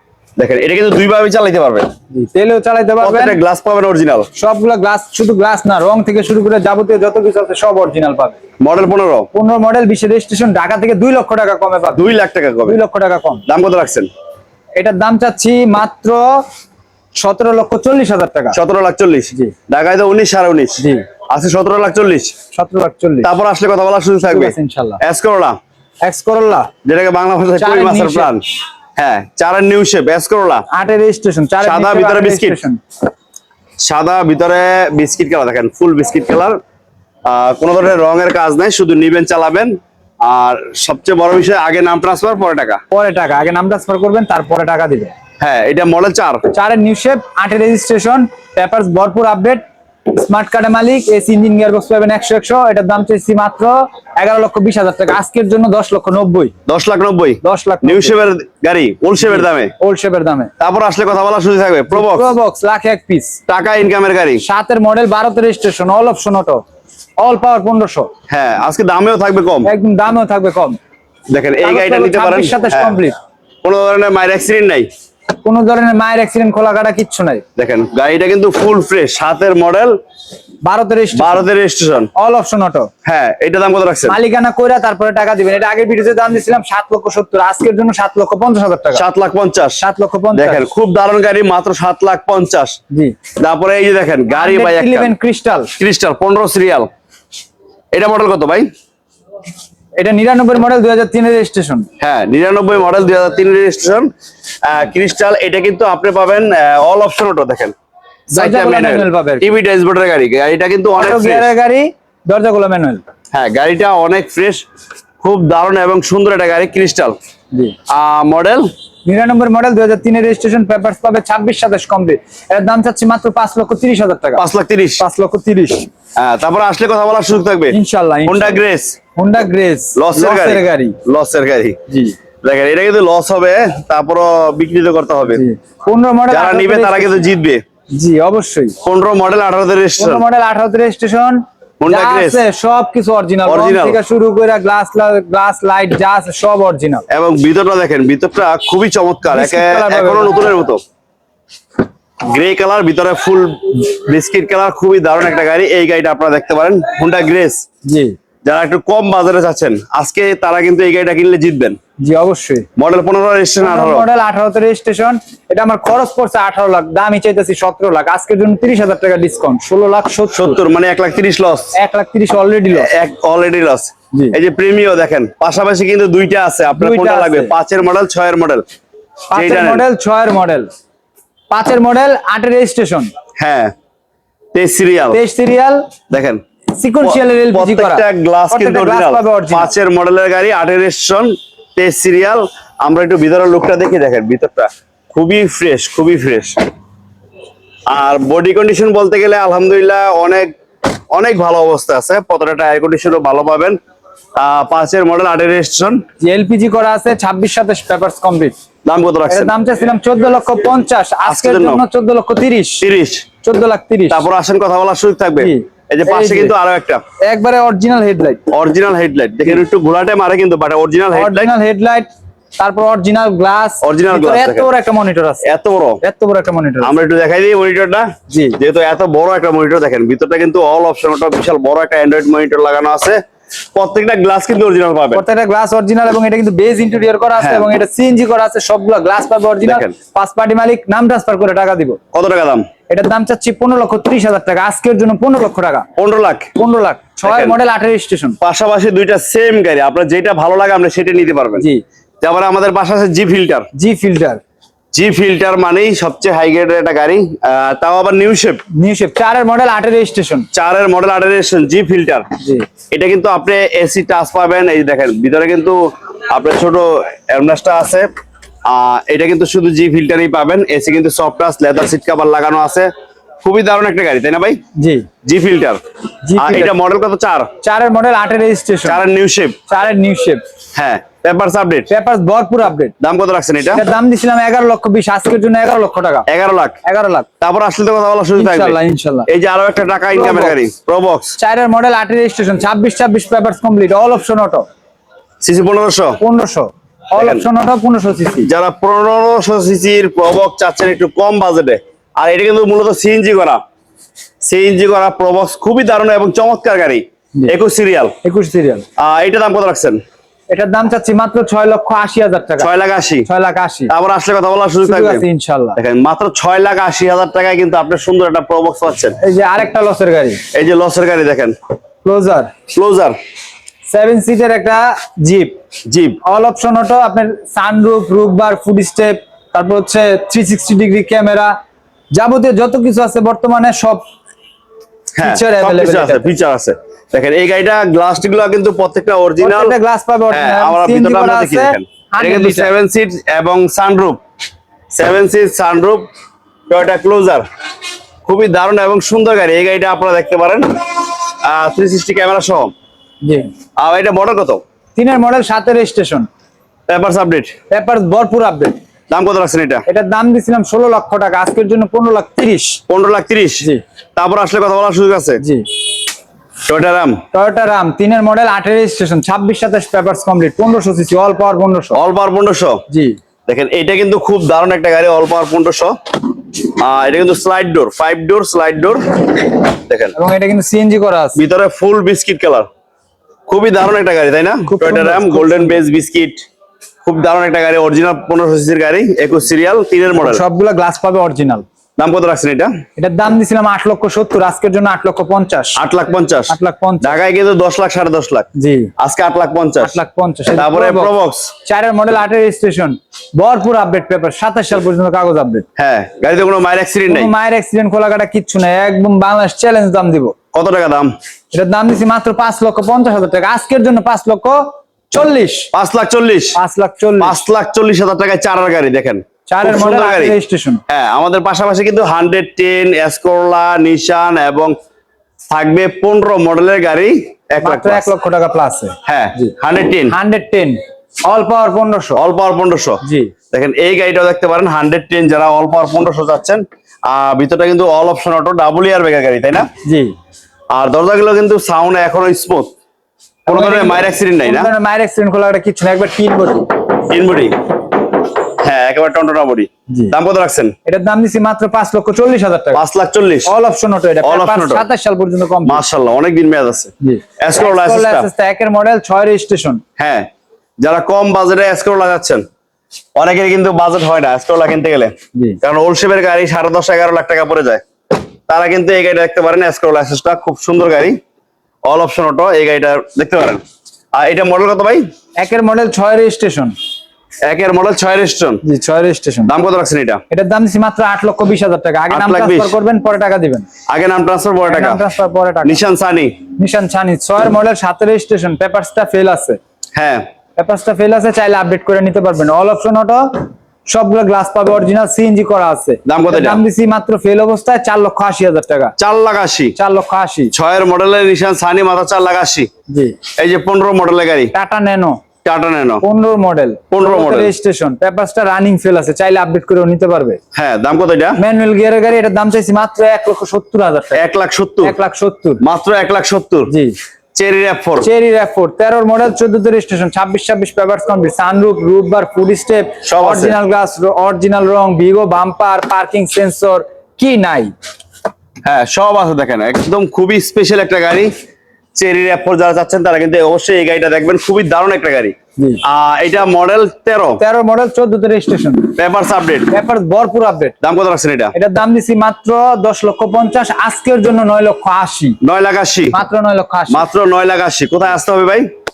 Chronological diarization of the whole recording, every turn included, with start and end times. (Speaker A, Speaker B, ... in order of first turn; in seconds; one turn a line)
Speaker A: 0.4-1.9
Speaker B: 2.1-3.4
Speaker A: 3.0-4.3
Speaker B: 4.3-8.4
Speaker A: 8.6-9.3
Speaker B: 9.3-12.1
Speaker A: 12.0-12.8
Speaker B: 12.7-13.4
Speaker A: 13.5-14.1
Speaker B: 14.8-16.4
Speaker B: 17.2-18.6
Speaker A: 18.5-22.3
Speaker B: 20.8-21.1
Speaker B: 22.5-23.3
Speaker A: 23.2-25.6
Speaker B: 24.3-25.0
Speaker B: 26.0-26.7
Speaker A: 26.9-28.4
Speaker B: 27.6-28.4
Speaker A: 29.0-30.7
Speaker B: 30.7-32.8
Speaker A: 31.6-32.6
Speaker A: 33.8-36.6
Speaker A: 37.2-42.8
Speaker B: 42.9-45.1
Speaker A: 45.4-46.5
Speaker B: 46.5-56.5
Speaker A: 56.7-59.7
Speaker B: 57.4-58.1
Speaker B: 59.3-60.5
Speaker A: 60.6-62.3
Speaker B: 61.9-63.4
Speaker A: 63.5-64.4
Speaker B: 64.4-66.6
Speaker B: 67.2-68.1
Speaker A: 68.3-69.7
Speaker B: 69.6-70.8
Speaker A: 71.3-73.0
Speaker B: 71.6-73.2
Speaker A: 73.6-74.9
Speaker B: 75.4-77.4
Speaker A: 77.6-80.0
Speaker B: 80.6-81.5
Speaker A: 81.1-82.1
Speaker B: 82.2-82.9
Speaker A: 83.0-84.2
Speaker B: 84.1-89.0
Speaker A: 89.0-89.8
Speaker B: 89.8-90.7
Speaker A: 90.3-92.8
Speaker B: 92.9-93.2
Speaker A: 93.4-95.1
Speaker B: 94.3-95.7
Speaker A: 95.8-96.9
Speaker A: 97.9-98.7
Speaker B: 100.0-101.9
Speaker A: 102.0-104.1
Speaker A: 104.6-107.8
Speaker B: 108.3-109.5
Speaker A: 108.3-111.5
Speaker B: 110.9-113.0
Speaker A: 113.3-114.6
Speaker A: 115.2-117.2
Speaker A: 117.9-118.7
Speaker B: 119.1-124.4
Speaker A: 124.4-125.0
Speaker B: 125.0-125.9
Speaker A: 126.2-127.8
Speaker B: 127.7-128.6
Speaker A: 128.3-129.0
Speaker B: 129.2-131.0
Speaker A: 130.0-131.8
Speaker B: 131.9-132.2
Speaker A: 132.4-135.4
Speaker B: 135.3-137.3
Speaker A: 136.3-137.6
Speaker B: 137.9-138.8
Speaker A: 138.8-140.2
Speaker B: 140.0-147.0
Speaker A: 141.8-142.4
Speaker A: 143.5-144.0
Speaker A: 147.1-150.8
Speaker B: 149.3-150.5
Speaker A: 152.2-157.6
Speaker B: 157.9-158.2
Speaker A: 158.4-161.8
Speaker B: 162.0-162.7
Speaker A: 162.8-164.1
Speaker B: 163.6-170.6
Speaker A: 170.3-171.7
Speaker B: 171.7-172.9
Speaker A: 172.7-178.7
Speaker B: 176.8-177.5
Speaker B: 179.3-180.7
Speaker A: 179.3-179.8
Speaker B: 181.5-183.1
Speaker A: 183.4-183.7
Speaker A: 184.5-185.2
Speaker B: 185.1-185.9
Speaker A: 186.1-186.4
Speaker B: 186.8-189.7
Speaker A: 187.0-196.6
Speaker A: 197.9-200.5
Speaker A: 201.1-203.8
Speaker A: 204.4-206.0
Speaker B: 206.2-208.6
Speaker A: 208.8-209.5
Speaker B: 209.3-212.9
Speaker A: 211.2-211.8
Speaker A: 212.8-213.3
Speaker B: 213.4-214.2
Speaker A: 214.1-217.0
Speaker B: 215.4-216.5
Speaker B: 217.2-218.4
Speaker A: 218.5-221.5
Speaker B: 221.1-222.1
Speaker B: 222.6-225.5
Speaker A: 223.8-224.7
Speaker A: 225.4-226.0
Speaker B: 226.0-226.9
Speaker A: 226.8-233.2
Speaker B: 228.3-228.6
Speaker A: 233.8-235.2
Speaker B: 235.1-242.0
Speaker A: 237.4-237.7
Speaker A: 239.6-239.9
Speaker A: 242.1-242.7
Speaker B: 242.9-245.9
Speaker A: 246.0-246.5
Speaker B: 246.6-248.4
Speaker A: 247.2-247.6
Speaker A: 248.4-251.7
Speaker B: 251.6-251.8
Speaker A: 252.2-253.7
Speaker B: 253.7-254.4
Speaker A: 254.9-258.6
Speaker B: 258.8-260.5
Speaker A: 260.5-262.3
Speaker B: 262.4-262.7
Speaker A: 262.9-268.1
Speaker A: 268.7-272.9
Speaker A: 273.4-274.6
Speaker B: 274.8-275.1
Speaker A: 275.2-275.8
Speaker B: 276.3-276.7
Speaker A: 276.4-277.5
Speaker B: 277.6-279.0
Speaker A: 278.9-279.6
Speaker B: 279.7-280.4
Speaker A: 280.8-281.9
Speaker B: 281.9-282.9
Speaker A: 283.0-283.8
Speaker B: 283.7-286.3
Speaker A: 286.3-286.8
Speaker B: 286.8-287.3
Speaker A: 287.4-291.4
Speaker B: 288.4-289.3
Speaker B: 290.1-290.6
Speaker B: 291.4-294.7
Speaker A: 295.4-296.2
Speaker B: 296.2-298.5
Speaker A: 297.2-297.5
Speaker A: 298.4-303.6
Speaker A: 304.4-308.1
Speaker B: 308.2-308.9
Speaker A: 309.0-310.0
Speaker B: 310.5-312.7
Speaker A: 312.6-313.3
Speaker B: 313.3-313.9
Speaker A: 313.9-315.2
Speaker B: 314.8-315.8
Speaker A: 315.8-319.2
Speaker B: 319.2-320.4
Speaker A: 320.5-321.6
Speaker B: 322.0-322.5
Speaker A: 322.7-323.2
Speaker B: 323.9-325.6
Speaker A: 325.9-326.2
Speaker B: 326.2-331.6
Speaker B: 332.1-334.1
Speaker A: 335.2-339.8
Speaker B: 335.2-336.3
Speaker B: 339.4-342.7
Speaker A: 340.3-344.2
Speaker A: 344.9-346.1
Speaker A: 346.7-347.4
Speaker A: 348.2-352.7
Speaker B: 353.2-353.5
Speaker A: 353.8-354.6
Speaker B: 355.0-356.3
Speaker A: 356.9-357.6
Speaker B: 357.7-358.8
Speaker A: 359.1-359.9
Speaker B: 359.9-362.8
Speaker A: 362.9-365.4
Speaker B: 365.4-365.7
Speaker A: 366.7-367.2
Speaker B: 367.3-372.0
Speaker A: 371.9-372.8
Speaker B: 372.9-373.2
Speaker A: 373.5-376.0
Speaker A: 376.6-380.1
Speaker B: 380.1-381.4
Speaker A: 381.4-382.7
Speaker A: 383.5-386.4
Speaker B: 384.6-385.8
Speaker A: 387.0-390.4
Speaker B: 390.1-391.6
Speaker A: 392.0-392.7
Speaker B: 393.0-395.8
Speaker A: 395.8-400.0
Speaker B: 396.5-397.2
Speaker B: 398.6-398.9
Speaker B: 399.8-401.1
Speaker A: 400.6-401.5
Speaker B: 401.6-405.6
Speaker A: 405.8-407.3
Speaker B: 407.1-410.4
Speaker A: 410.5-411.1
Speaker B: 411.5-415.7
Speaker A: 415.7-416.6
Speaker B: 416.6-417.4
Speaker A: 417.2-420.4
Speaker B: 419.5-420.8
Speaker A: 420.9-424.8
Speaker A: 425.5-428.1
Speaker B: 427.6-429.5
Speaker A: 429.1-430.2
Speaker B: 430.1-432.2
Speaker A: 432.2-439.7
Speaker B: 433.0-433.3
Speaker B: 439.9-440.1
Speaker A: 440.7-442.7
Speaker B: 443.5-446.7
Speaker A: 443.5-444.7
Speaker A: 447.1-447.6
Speaker A: 448.6-450.8
Speaker B: 449.9-450.1
Speaker B: 450.9-452.8
Speaker A: 452.7-453.5
Speaker B: 453.5-455.8
Speaker A: 454.2-454.9
Speaker A: 455.6-458.3
Speaker B: 457.0-459.8
Speaker A: 460.0-460.3
Speaker A: 460.8-462.4
Speaker A: 463.2-467.8
Speaker A: 468.5-471.2
Speaker A: 471.9-473.6
Speaker A: 474.1-475.0
Speaker B: 475.4-476.8
Speaker A: 477.4-478.6
Speaker B: 478.6-479.5
Speaker A: 479.5-480.2
Speaker B: 480.3-483.7
Speaker A: 482.1-482.8
Speaker A: 483.9-485.0
Speaker B: 484.7-485.8
Speaker A: 485.6-486.4
Speaker B: 486.6-489.6
Speaker A: 490.0-490.3
Speaker B: 490.6-498.9
Speaker A: 496.1-496.6
Speaker A: 499.0-499.8
Speaker B: 499.8-500.5
Speaker A: 500.5-502.7
Speaker B: 502.9-503.1
Speaker A: 503.4-504.5
Speaker B: 504.5-505.2
Speaker A: 505.4-506.0
Speaker B: 506.0-510.4
Speaker A: 506.9-507.5
Speaker A: 510.5-511.4
Speaker B: 511.4-514.2
Speaker A: 514.2-515.0
Speaker B: 514.8-515.6
Speaker A: 515.6-516.7
Speaker B: 516.7-517.0
Speaker A: 517.3-518.1
Speaker B: 518.0-527.7
Speaker A: 523.0-523.6
Speaker A: 528.6-531.3
Speaker A: 532.0-537.4
Speaker B: 537.4-538.9
Speaker A: 539.0-539.7
Speaker B: 539.7-540.8
Speaker A: 540.8-541.5
Speaker B: 541.5-545.4
Speaker A: 545.4-546.2
Speaker B: 546.1-547.0
Speaker A: 546.9-548.7